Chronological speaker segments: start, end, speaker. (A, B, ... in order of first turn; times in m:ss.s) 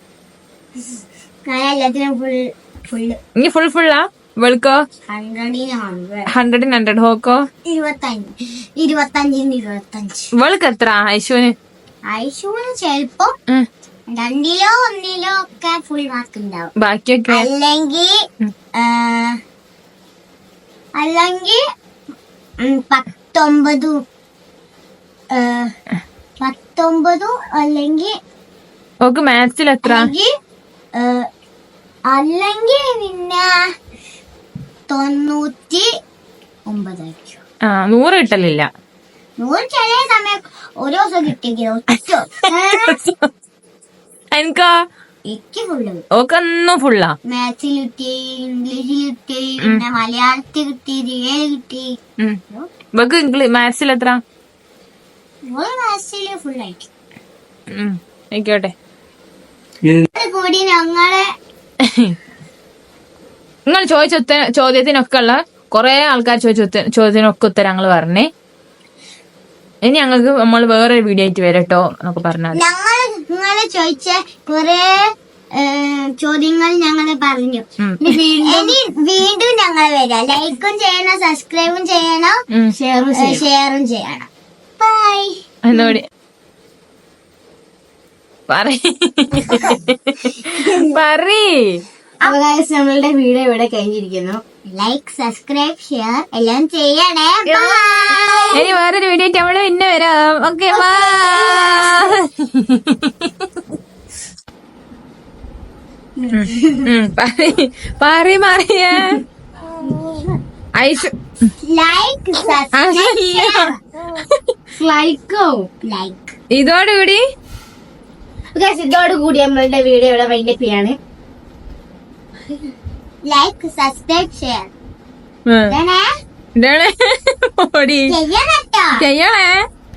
0:01.5-0:03.2 A
0:03.4-0:04.8 B
0:05.1-0:06.3 A
0:06.3-0:07.4 B
0:07.6-0:10.3 A
0:10.4-0:11.5 B
0:12.1-0:13.3 A
0:14.1-0:16.7 A
0:16.8-0:17.5 B
0:17.3-0:18.2 A
0:18.7-0:19.4 A
0:21.0-0:21.6 A
0:22.6-0:24.0 A
0:25.3-0:25.7 A
0:26.4-0:28.2 A
0:29.0-0:30.1 B
0:29.8-0:30.3 A
0:30.9-0:31.3 A
0:32.1-0:33.6 A
0:34.9-0:35.9 A
0:36.7-0:37.4 A
0:37.6-0:38.7 B
0:39.4-0:43.0 A
0:42.8-0:43.2 B
0:44.3-0:44.8 B
0:45.3-0:46.0 A
0:46.1-0:47.1 B
0:47.2-0:51.9 A
0:52.9-0:54.2 B
0:55.5-0:56.9 A
0:57.7-0:58.7 B
1:00.1-1:01.3 A
1:01.8-1:02.1 B
1:03.7-1:08.3 B
1:09.8-1:12.6 B
1:12.5-1:17.7 A
1:17.8-1:18.2 B
1:18.0-1:18.8 C
1:18.4-1:22.4 A
1:22.7-1:23.4 C
1:23.1-1:24.3 A
1:24.8-1:25.4 A
1:25.6-1:26.0 B
1:28.5-1:31.8 B
1:30.5-1:30.8 A
1:32.2-1:34.4 C
1:34.7-1:38.6 A
1:37.5-1:38.7 C
1:38.5-1:43.3 B
1:40.7-1:42.2 A
1:46.2-1:46.9 C
1:46.3-1:49.2 B
1:49.7-1:50.4 A
1:50.8-1:51.5 B
1:51.6-1:53.8 A
1:52.7-1:53.7 B
1:54.7-1:55.7 C
1:55.8-1:56.3 A
1:56.5-1:57.2 B
1:58.5-2:01.0 C
2:03.2-2:04.7 A
2:05.5-2:05.7 B
2:05.7-2:06.1 A
2:06.6-2:08.1 B
2:08.1-2:09.0 A
2:09.0-2:09.6 B